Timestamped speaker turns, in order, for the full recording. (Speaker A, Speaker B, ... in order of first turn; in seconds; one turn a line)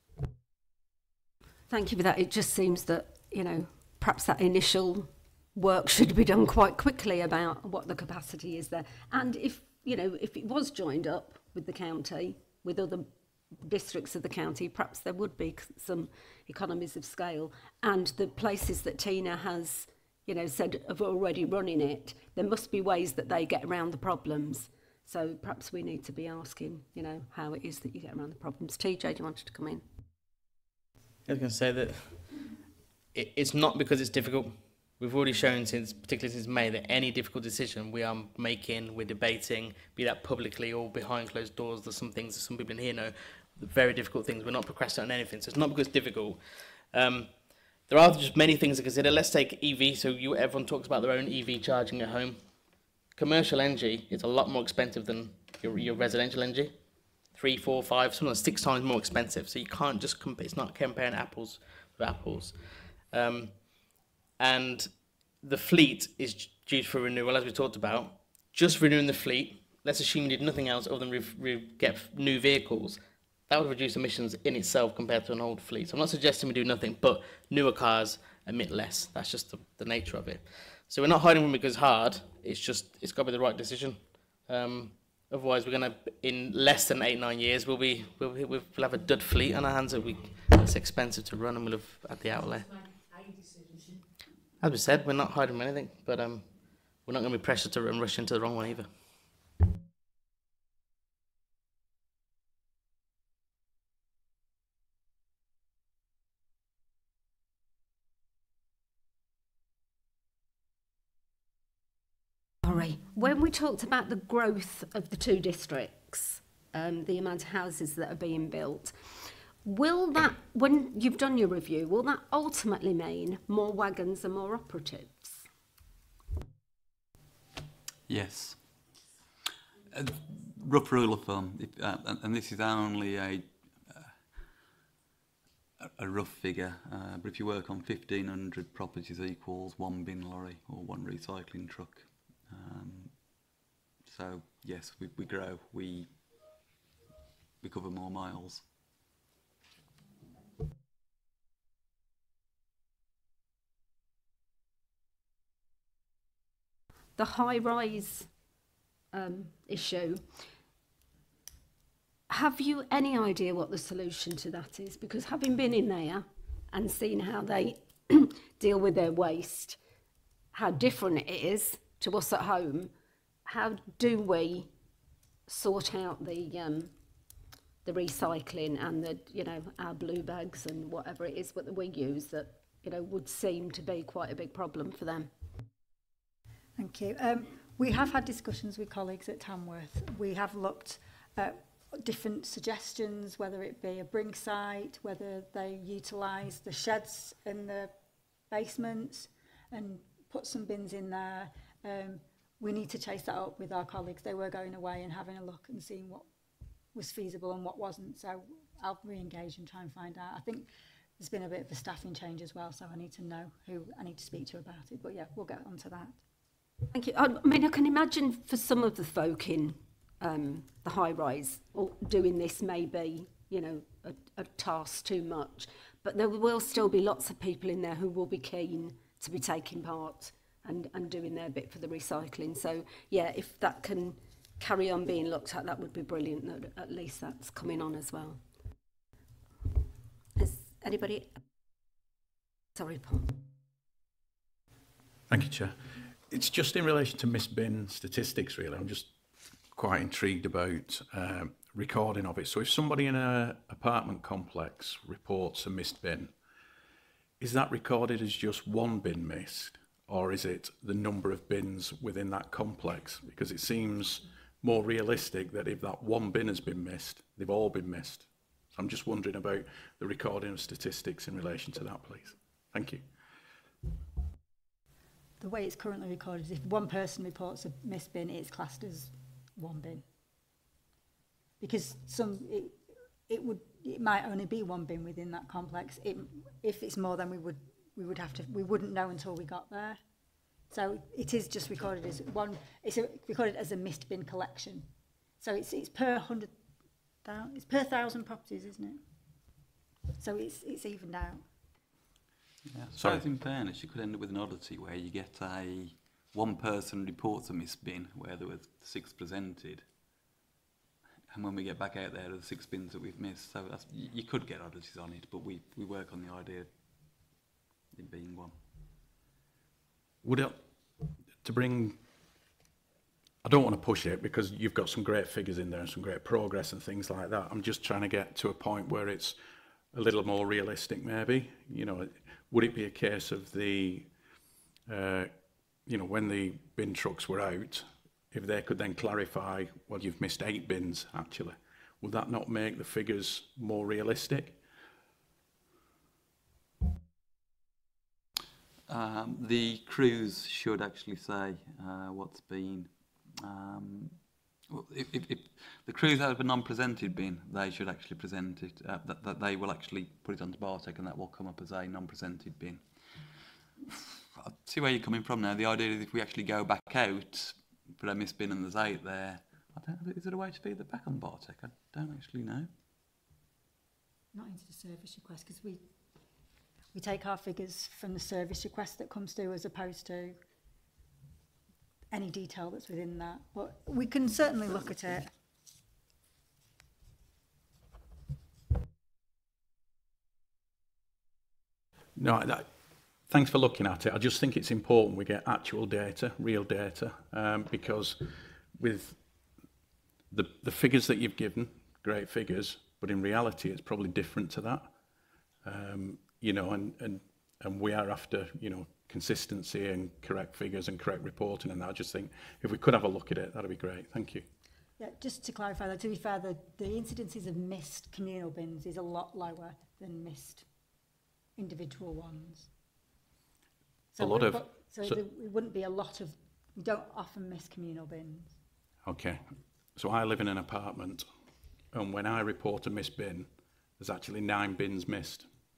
Speaker A: 1.7-29.9
Speaker B: 31.3-32.6
Speaker B: 33.1-52.6
Speaker B: 53.1-56.8
Speaker B: 57.3-63.7
Speaker B: 64.4-92.9
Speaker B: 94.6-99.1
Speaker A: 112.6-125.5
Speaker C: 128.1-128.6
Speaker C: 129.9-134.1
Speaker C: 135.8-143.3
Speaker C: 144.1-146.1
Speaker C: 147.6-148.7
Speaker A: 157.2-158.3
Speaker A: 159.1-160.4
Speaker A: 162.3-169.8
Speaker A: 170.5-172.9
Speaker A: 173.5-174.7
Speaker A: 175.5-176.9
Speaker A: 177.8-185.3
Speaker D: 186.8-197.9
Speaker D: 198.5-206.3
Speaker D: 206.9-216.2
Speaker A: 216.9-238.4
Speaker A: 240.4-241.4
Speaker A: 242.8-243.4
Speaker E: 245.3-249.2
Speaker E: 249.7-256.4
Speaker E: 257.4-273.1
Speaker D: 275.4-280.1
Speaker D: 281.6-290.0
Speaker D: 290.7-296.5
Speaker D: 297.2-299.0
Speaker D: 300.2-301.4
Speaker C: 302.7-309.9
Speaker E: 302.9-303.2
Speaker C: 311.3-316.7
Speaker C: 317.9-318.6
Speaker E: 320.2-320.6
Speaker E: 321.4-322.0
Speaker E: 323.4-329.4
Speaker E: 329.9-334.1
Speaker E: 334.9-335.4
Speaker E: 335.9-344.6
Speaker C: 348.9-354.2
Speaker C: 354.7-362.8
Speaker C: 363.9-372.7
Speaker D: 374.3-375.9
Speaker D: 376.9-380.4
Speaker D: 382.1-385.3
Speaker E: 392.2-392.7
Speaker E: 393.2-399.2
Speaker E: 400.3-404.9
Speaker E: 405.6-414.5
Speaker D: 415.0-420.7
Speaker D: 421.6-422.7
Speaker D: 424.1-428.6
Speaker E: 424.2-425.2
Speaker E: 429.0-431.3
Speaker E: 431.9-435.5